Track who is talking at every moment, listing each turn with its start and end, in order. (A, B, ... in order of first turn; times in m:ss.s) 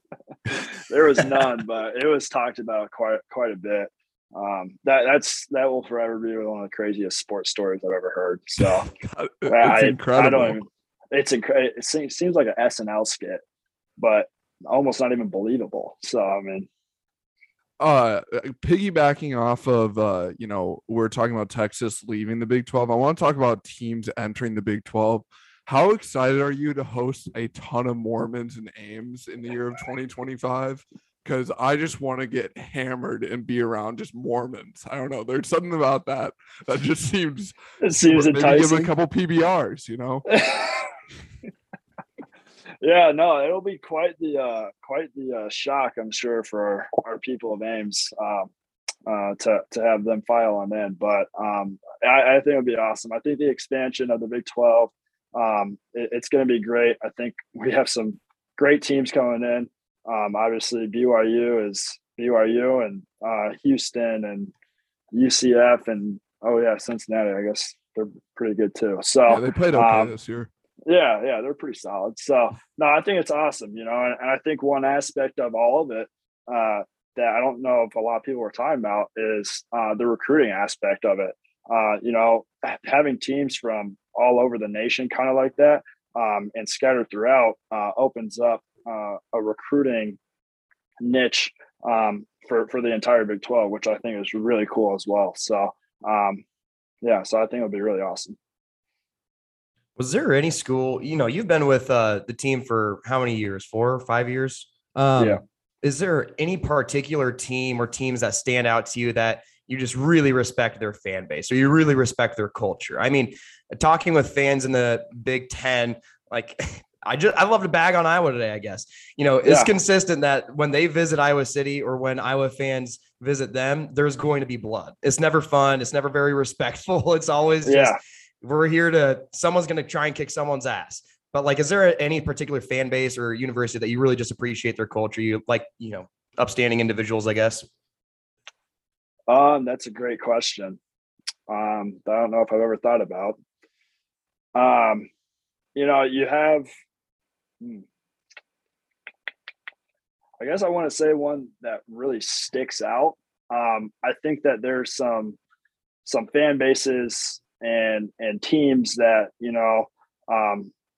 0:00.5-0:08.9 A
0:08.6-0:10.6 B
0:09.5-0:13.4 A
0:14.0-0:16.7 A
0:17.8-0:40.2 B
0:37.8-0:38.9 A
0:40.3-0:40.9 A
0:42.8-0:48.5 A
0:49.1-1:04.5 A
1:05.1-1:10.1 A
1:09.3-1:10.5 B
1:10.9-1:30.2 A
1:31.0-1:36.4 A
1:37.0-1:38.4 A
1:40.0-2:17.7 C
1:59.4-1:59.7 A
2:07.6-2:08.0 A
2:19.3-2:20.8 A
2:21.5-2:23.4 A
2:24.6-2:25.1 A
2:25.8-2:26.7 A
2:30.4-2:35.4 A
2:36.0-2:40.7 A